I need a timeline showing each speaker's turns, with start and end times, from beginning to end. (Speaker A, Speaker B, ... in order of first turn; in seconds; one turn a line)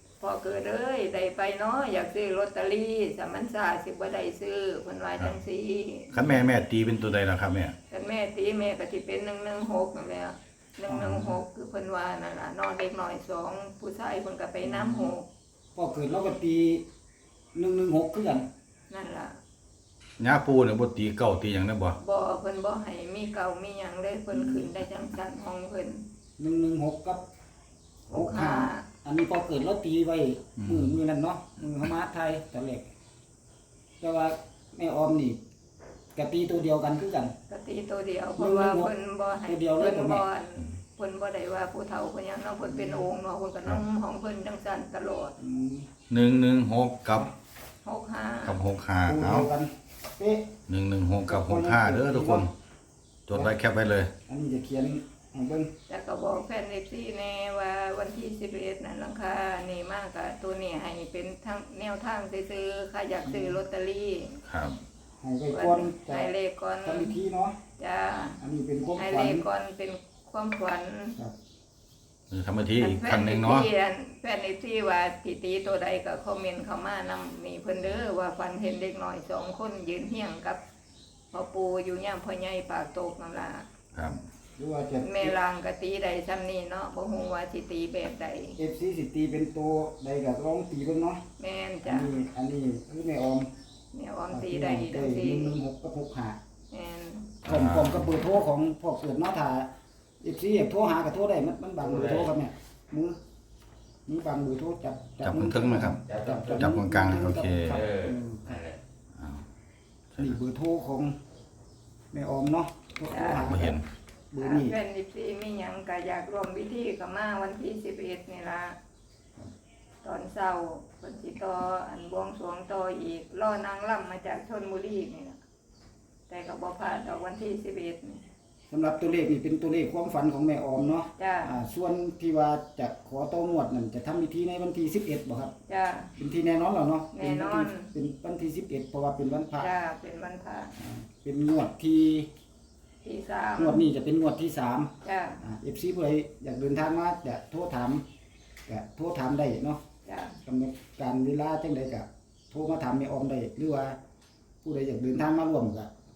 Speaker A: 0.2-6.1
Speaker B: 6.1-7.7
Speaker A: 7.9-15.3
Speaker C: 10.9-11.4
Speaker C: 14.6-15.1
Speaker C: 15.8-16.8
Speaker C: 17.6-18.5
Speaker A: 18.9-19.4
Speaker B: 20.2-22.0
Speaker A: 22.0-26.1
Speaker C: 24.3-24.6
Speaker C: 26.4-27.3
Speaker C: 28.1-32.9
Speaker A: 28.1-28.9
Speaker B: 30.6-31.0
Speaker C: 34.0-35.4
Speaker C: 36.1-37.3
Speaker A: 37.5-45.4
Speaker C: 38.4-38.9
Speaker C: 39.5-40.2
Speaker C: 42.7-43.1
Speaker C: 45.4-45.9
Speaker B: 46.1-47.3
Speaker A: 47.8-48.6
Speaker B: 48.5-49.5
Speaker C: 49.1-50.5
Speaker B: 50.7-52.5
Speaker C: 51.3-52.5
Speaker B: 53.3-54.1
Speaker C: 54.3-55.7
Speaker A: 55.9-64.4
Speaker C: 63.2-63.6
Speaker B: 64.5-64.8
Speaker C: 65.2-66.3
Speaker A: 65.5-67.2
Speaker C: 66.8-67.6
Speaker A: 67.8-68.4
Speaker C: 68.4-69.5
Speaker A: 69.0-71.2
Speaker B: 72.3-73.7
Speaker A: 72.8-80.6
Speaker A: 81.3-83.7
Speaker B: 83.9-84.2
Speaker C: 84.6-85.4
Speaker A: 85.0-88.6
Speaker C: 88.6-91.2
Speaker A: 91.4-92.1
Speaker C: 91.8-93.5
Speaker A: 93.9-95.6
Speaker C: 94.3-96.4
Speaker A: 96.7-97.4
Speaker C: 97.5-99.7
Speaker B: 97.5-98.1
Speaker C: 100.2-103.2
Speaker D: 101.8-102.3
Speaker C: 104.1-108.6
Speaker B: 105.2-107.8
Speaker D: 106.0-106.6
Speaker D: 107.7-108.8
Speaker B: 109.2-109.4
Speaker C: 110.2-111.2
Speaker C: 112.1-113.8
Speaker A: 113.1-113.6
Speaker B: 113.4-113.9
Speaker C: 114.3-114.8
Speaker A: 114.4-118.8
Speaker A: 120.0-125.4
Speaker A: 126.3-128.2
Speaker C: 128.7-135.5
Speaker A: 131.2-131.5
Speaker A: 135.7-136.1
Speaker C: 136.2-139.7
Speaker A: 137.1-137.9
Speaker A: 139.6-140.7
Speaker C: 140.8-142.3
Speaker A: 143.0-143.8
Speaker C: 143.6-148.0
Speaker A: 145.0-145.4
Speaker C: 148.7-149.8
Speaker A: 150.1-150.4
Speaker C: 150.5-154.0
Speaker C: 154.6-155.9